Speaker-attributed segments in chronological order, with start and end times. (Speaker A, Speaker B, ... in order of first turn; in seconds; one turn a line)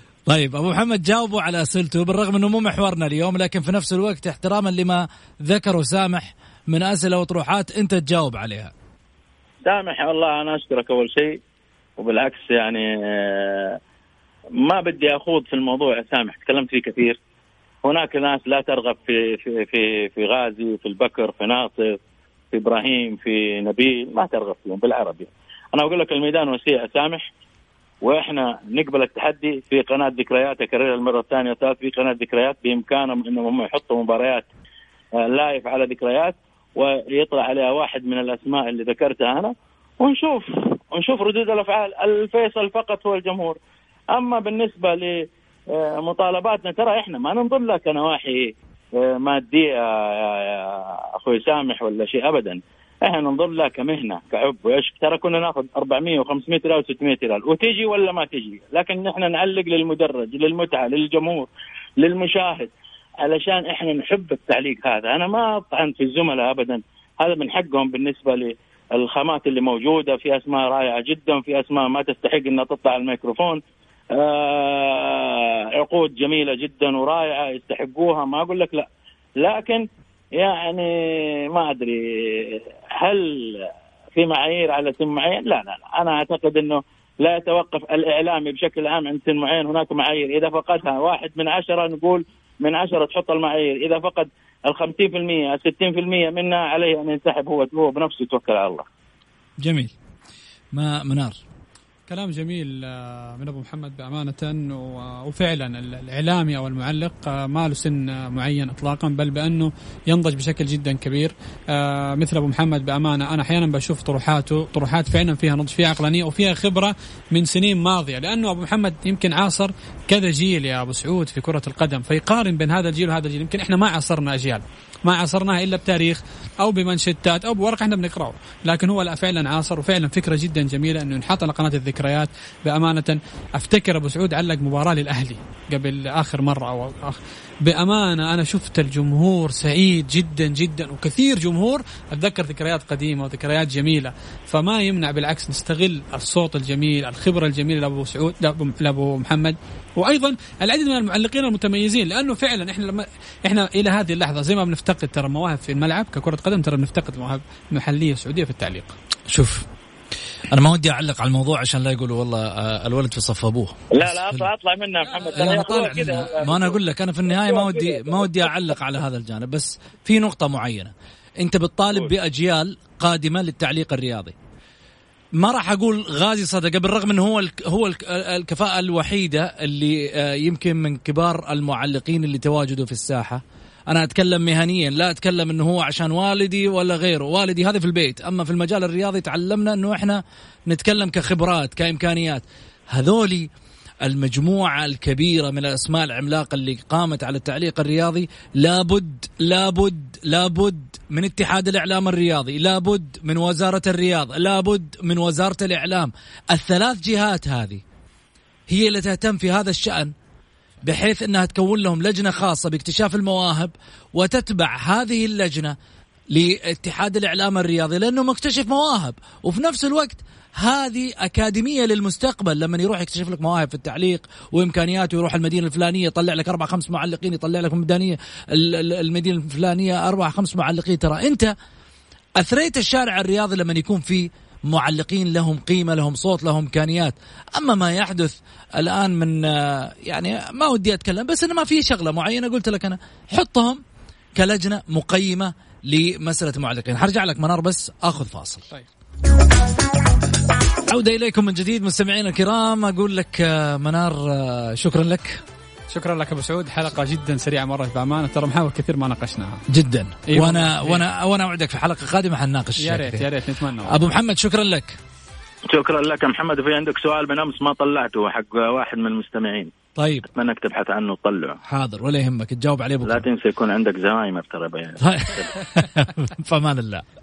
Speaker A: 0.3-8.7
Speaker B: 9.6-11.4
Speaker B: 12.0-13.8
Speaker B: 14.6-17.2
Speaker B: 17.8-22.0
Speaker B: 22.5-27.3
Speaker B: 28.0-34.5
Speaker B: 35.2-43.6
Speaker B: 44.1-61.5
Speaker B: 62.0-62.7
Speaker B: 63.2-73.6
Speaker B: 74.1-78.9
Speaker B: 79.4-79.8
Speaker B: 80.4-98.8
Speaker A: 99.6-99.9
Speaker A: 100.7-101.4
Speaker C: 102.1-158.9
Speaker A: 159.3-159.7
Speaker A: 160.5-164.5
Speaker B: 163.9-168.5
Speaker C: 165.1-165.8
Speaker A: 165.3-174.3
Speaker A: 175.3-193.5
Speaker A: 194.0-207.8
Speaker A: 208.7-210.1
Speaker A: 210.8-215.8
Speaker A: 216.3-231.5
Speaker A: 232.4-243.8
Speaker A: 244.3-248.6
Speaker A: 250.9-255.4
Speaker C: 255.9-259.6
Speaker A: 259.7-263.3
Speaker C: 260.3-261.0
Speaker C: 262.8-264.0
Speaker A: 263.9-265.0
Speaker B: 265.7-269.7
Speaker A: 270.0-270.3
Speaker B: 270.3-271.6
Speaker A: 271.6-273.2
Speaker B: 273.0-275.5
Speaker A: 275.0-277.0